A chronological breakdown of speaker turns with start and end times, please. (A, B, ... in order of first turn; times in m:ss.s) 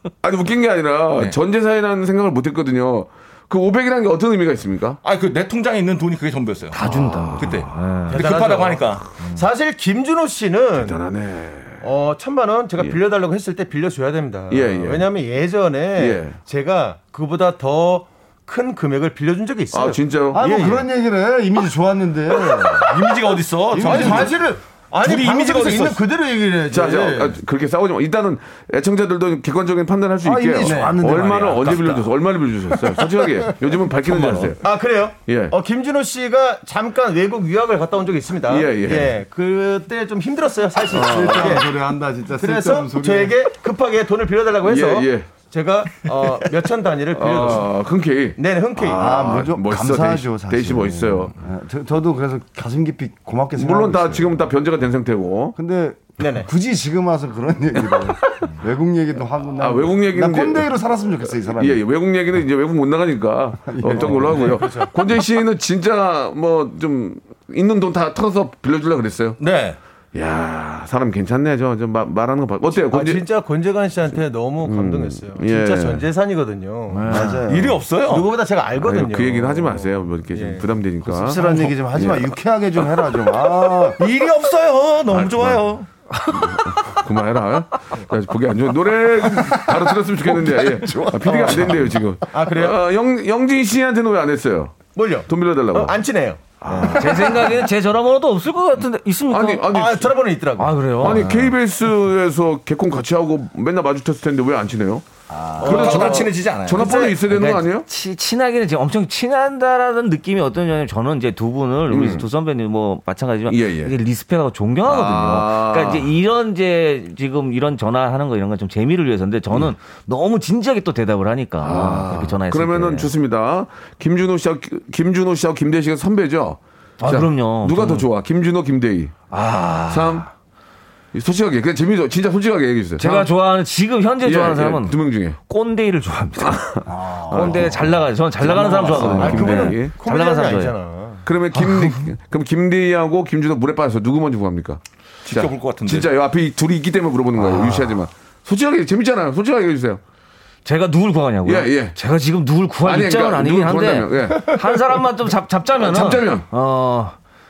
0:00.2-0:05.0 A
0:05.0-0:06.8 B
0:06.7-0:08.2 C
0:06.8-0:07.7 A
0:07.4-0:09.0 B
0:08.1-0:11.0 D
0:10.8-0:11.8 A
0:11.8-0:20.9 D
0:14.5-0:15.1 A
0:16.0-0:16.4 A
0:19.7-0:20.6 A
0:20.3-0:23.0 E
0:22.8-0:24.3 B
0:23.7-0:24.3 E
0:23.8-0:27.4 D
0:25.0-0:26.0 B
0:26.7-0:34.6 A
0:30.2-0:32.0 E
0:30.6-0:31.0 D
0:33.0-0:33.5 D
0:34.6-0:41.7 D
0:35.2-0:35.5 A
0:38.5-0:39.2 A
0:40.9-0:41.6 A
0:40.9-0:43.4 E
0:42.4-0:47.7 D
0:44.6-0:45.3 A
0:47.1-0:51.3 A
0:48.4-0:49.2 D
0:48.8-0:54.5 E
0:53.6-0:55.6 A
0:55.6-1:01.8 E
0:56.2-0:56.5 D
0:59.6-1:00.7 A
1:01.6-1:09.4 A
1:03.7-1:04.6 E
1:04.0-1:04.9 D
1:09.4-1:09.8 B
1:10.1-1:13.2 A
1:12.9-1:17.2 D
1:14.6-1:16.0 A
1:16.9-1:17.4 C
1:17.1-1:17.8 E
1:17.4-1:18.3 B
1:18.0-1:20.6 D
1:18.7-1:22.3 A
1:21.1-1:24.0 E
1:24.0-1:25.9 B
1:25.1-1:25.7 A
1:26.3-1:36.0 A
1:30.2-1:32.0 E
1:31.2-1:31.8 D
1:32.3-1:32.8 D
1:34.9-1:36.9 D
1:36.6-1:37.3 A
1:36.8-1:39.6 C
1:39.3-1:40.1 A
1:39.7-1:41.2 D
1:40.6-1:41.5 C
1:41.0-1:45.0 A
1:45.6-1:47.0 B
1:45.6-1:47.9 A
1:45.6-1:47.2 D
1:47.3-2:03.1 C
1:51.9-1:52.2 A
1:53.5-1:54.0 A
1:54.8-1:56.1 A
2:01.6-2:09.1 A
2:07.0-2:08.0 C
2:09.3-2:10.2 C
2:09.9-2:10.2 A
2:11.1-2:13.3 A
2:13.0-2:20.7 C
2:14.2-2:15.4 A
2:16.4-2:19.9 A
2:16.8-2:18.0 E
2:18.5-2:19.2 B
2:19.1-2:21.2 D
2:21.2-2:30.0 A
2:25.2-2:26.1 B
2:27.4-2:27.9 C
2:30.6-2:37.1 C
2:31.4-2:32.0 A
2:32.8-2:34.8 A
2:35.8-2:36.4 A